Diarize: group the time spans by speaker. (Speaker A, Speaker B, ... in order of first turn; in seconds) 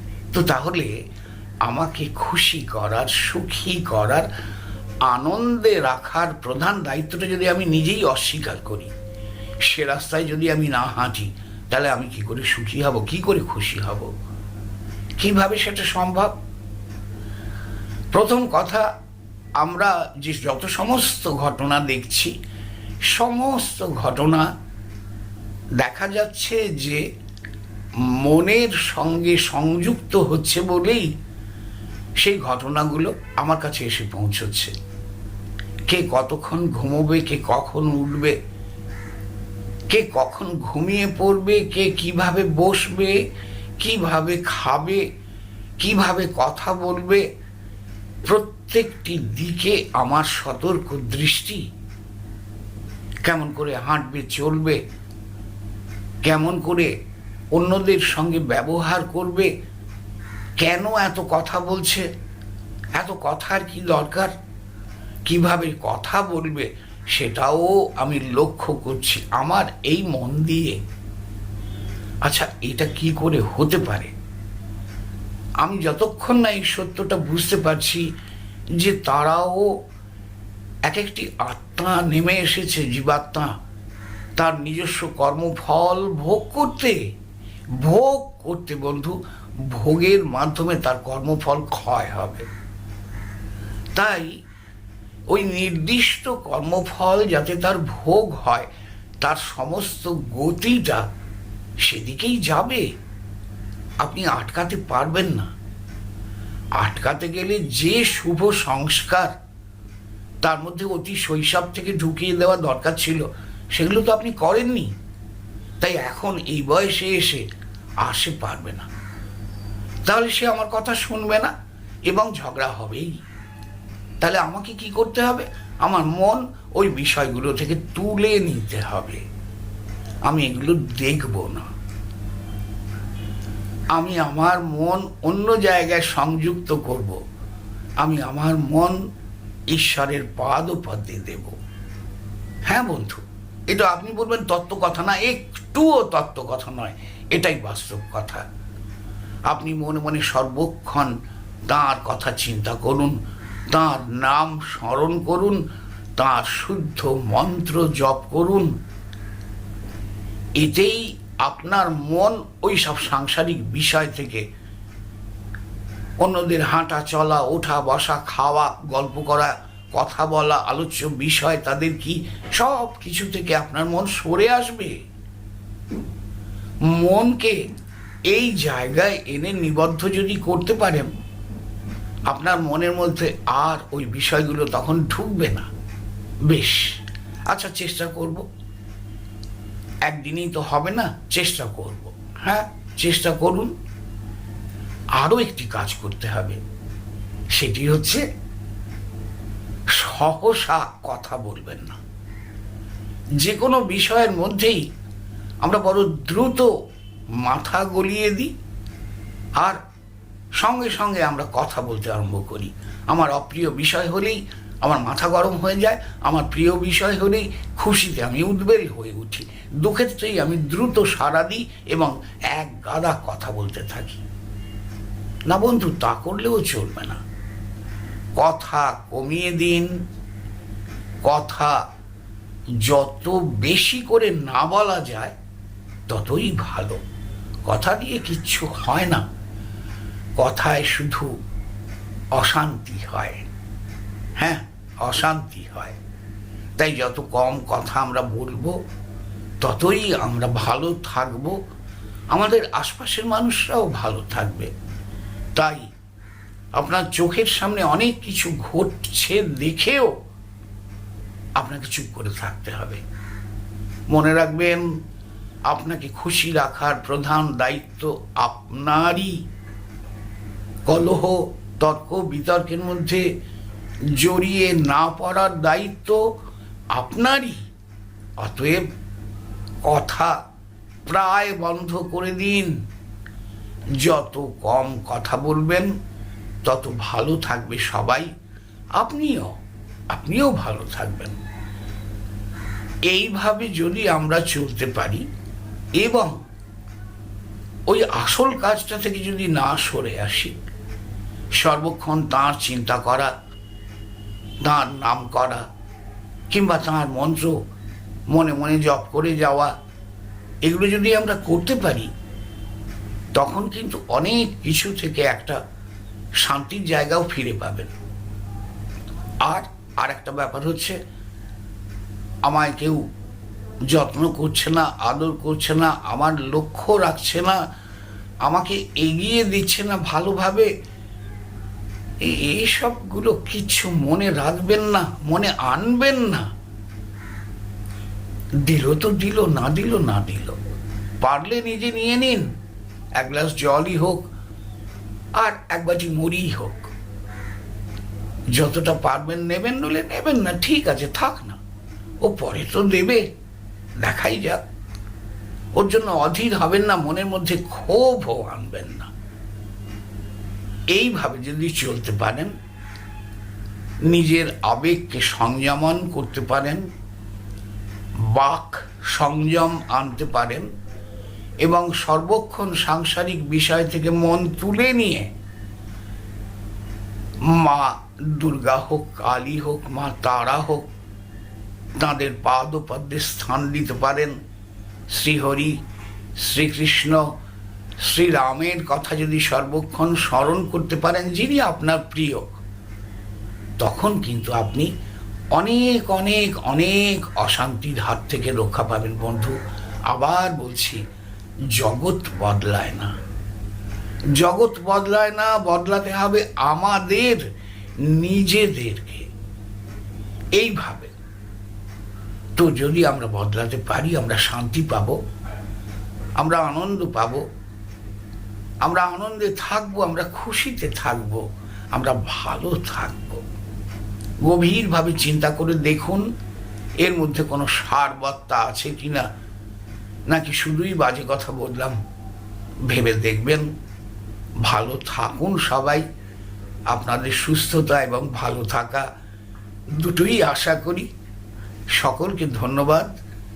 Speaker A: 0.3-0.9, 1.7-4.3, 5.1-8.9, 9.6-14.1, 15.2-16.3, 18.1-18.9, 19.6-22.3, 23.1-24.5, 25.8-27.1, 28.1-31.1, 32.2-34.7, 35.9-38.4, 39.9-43.2, 43.8-45.0, 45.8-47.2, 48.3-51.6, 53.2-54.8, 56.2-56.9, 57.5-59.5, 60.6-62.1, 63.0-64.3, 65.3-70.8, 72.2-74.1, 75.6-78.1, 78.8-79.7, 80.9-83.5, 84.4-87.0, 87.8-89.2, 89.7-92.5, 94.0-94.3, 95.3-98.7, 99.2-101.0, 101.8-102.9, 104.0-105.5, 106.8-109.3, 110.4-114.9, 115.8-117.5, 118.0-118.9, 120.1-121.5, 122.1-123.2, 124.2-129.2, 130.3-131.7, 133.9-137.2, 138.0-139.0, 139.7-141.6, 142.7-148.4, 149.5-151.1, 151.7-153.2, 153.7-155.6, 156.2-158.7, 160.6-164.4, 166.2-175.0, 176.9-177.6, 178.3-181.1, 182.3-185.7, 186.5-186.9, 187.5-188.4, 190.1-193.7, 195.2-196.6, 197.6-198.2, 199.9-202.0, 203.4-204.8, 205.6-206.7, 207.4-208.5, 210.6-224.2, 225.5-227.2, 228.4-229.9, 231.3-231.8, 232.8-235.3, 236.1-237.0, 237.7-239.2, 240.4-241.3, 242.4-243.4, 244.4-246.0, 246.8-248.8, 249.6-251.6, 252.3-254.7, 255.6-255.9, 256.8-260.1, 261.6-263.0, 264.1-264.9, 265.7-269.4, 270.9-273.2, 274.1-276.2, 276.9-277.6, 278.4-278.9, 279.9-280.4, 281.1-282.8, 284.0-285.9, 286.6-288.3, 289.0-289.5, 290.1-291.4, 293.1-295.3, 296.0-296.4, 297.9-300.5, 301.6-303.3, 304.6-305.7, 306.5-307.6, 308.3-309.7, 310.6-312.1, 313.4-315.6, 316.4-317.9, 319.4-321.0, 322.5-323.0, 323.9-327.6, 328.5-330.7, 332.2-336.5, 338.6-340.6, 341.2-342.5, 343.2-344.3, 345.4-346.9, 348.5-351.6, 352.2-353.3, 354.0-354.6, 355.8-359.1, 360.9-362.5, 364.1-366.8, 368.3-370.7, 371.6-375.3, 377.5-380.9, 382.0-384.4, 385.1-385.8, 386.4-387.3, 388.0-392.5, 393.8-394.9, 395.5-399.6, 400.1-401.0, 401.7-403.1, 404.4-407.5, 408.1-409.3, 410.6-411.1, 412.6-415.2, 416.4-417.4, 418.8-421.4, 421.9-423.4, 424.4-426.2, 427.0-429.3, 430.3-432.0, 432.9-433.7, 434.6-436.1, 436.9-439.1, 440.0-441.1, 441.9-443.1